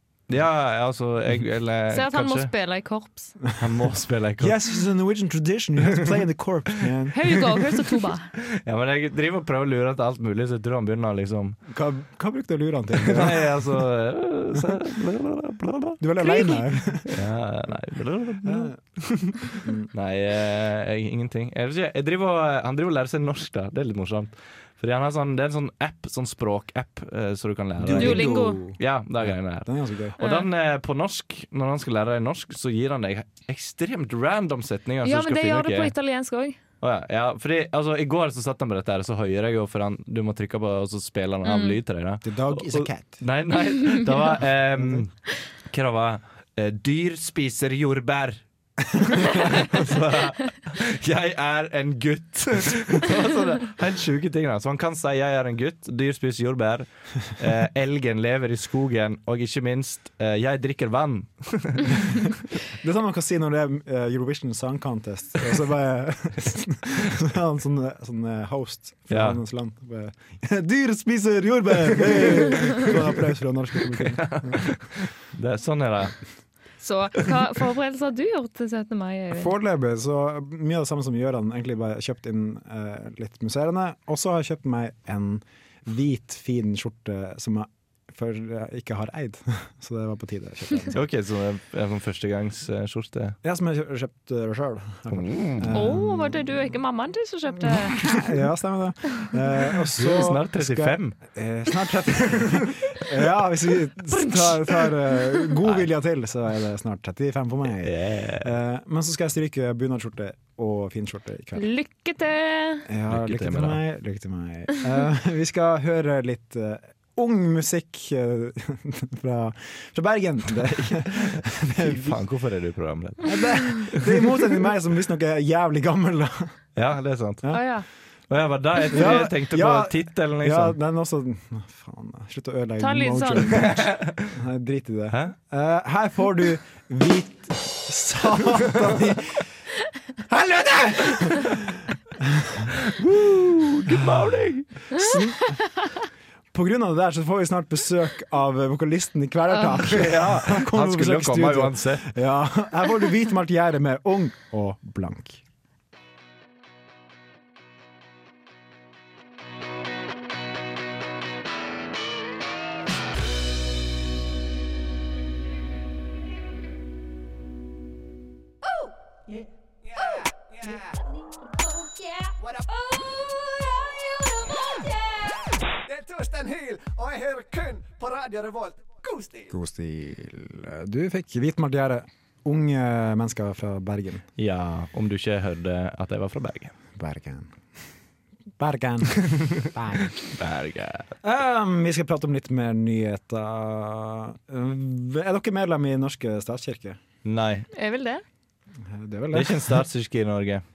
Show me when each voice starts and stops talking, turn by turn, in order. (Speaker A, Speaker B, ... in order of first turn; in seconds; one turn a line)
Speaker A: 0.3-2.5
Speaker B: 1.9-3.4
Speaker A: 3.6-4.6
Speaker C: 4.4-7.6
Speaker B: 7.1-8.3
Speaker A: 8.5-11.6
Speaker C: 11.7-13.8
Speaker A: 13.0-16.0
Speaker C: 16.0-17.2
Speaker B: 16.2-16.6
Speaker A: 17.1-35.9
Speaker C: 18.4-18.9
Speaker C: 19.5-19.9
Speaker C: 27.8-30.2
Speaker B: 27.9-28.6
Speaker B: 30.2-30.4
Speaker B: 35.0-36.6
Speaker A: 36.8-45.1
Speaker B: 41.4-41.8
Speaker C: 42.2-43.2
Speaker C: 44.8-45.0
Speaker A: 45.7-48.4
Speaker A: 48.9-62.2
Speaker C: 62.7-74.8
Speaker A: 69.1-69.4
Speaker A: 74.2-76.2
Speaker B: 76.8-79.5
Speaker C: 79.3-91.0
Speaker A: 90.9-93.4
Speaker C: 93.4-96.7
Speaker A: 95.1-95.8
Speaker B: 95.7-98.2
Speaker C: 97.6-111.6
Speaker A: 100.0-101.2
Speaker B: 104.1-104.8
Speaker A: 107.8-108.6
Speaker B: 111.5-112.9
Speaker C: 112.9-122.2
Speaker A: 113.1-113.8
Speaker A: 120.7-124.2
Speaker C: 123.2-126.5
Speaker A: 126.8-127.6
Speaker B: 127.5-127.8
Speaker A: 128.3-130.8
Speaker C: 128.9-139.4
Speaker B: 132.8-133.7
Speaker A: 133.5-134.3
Speaker C: 140.3-142.7
Speaker A: 142.8-144.9
Speaker C: 143.9-144.2
Speaker C: 144.9-145.6
Speaker C: 146.5-155.4
Speaker A: 149.8-152.1
Speaker D: 175.9-179.5
Speaker C: 179.5-184.2
Speaker A: 184.4-186.8
Speaker C: 187.0-187.5
Speaker C: 188.6-190.1
Speaker A: 190.2-191.1
Speaker C: 191.2-197.0
Speaker A: 197.2-197.7
Speaker B: 197.7-198.2
Speaker C: 198.8-199.8
Speaker A: 199.3-200.6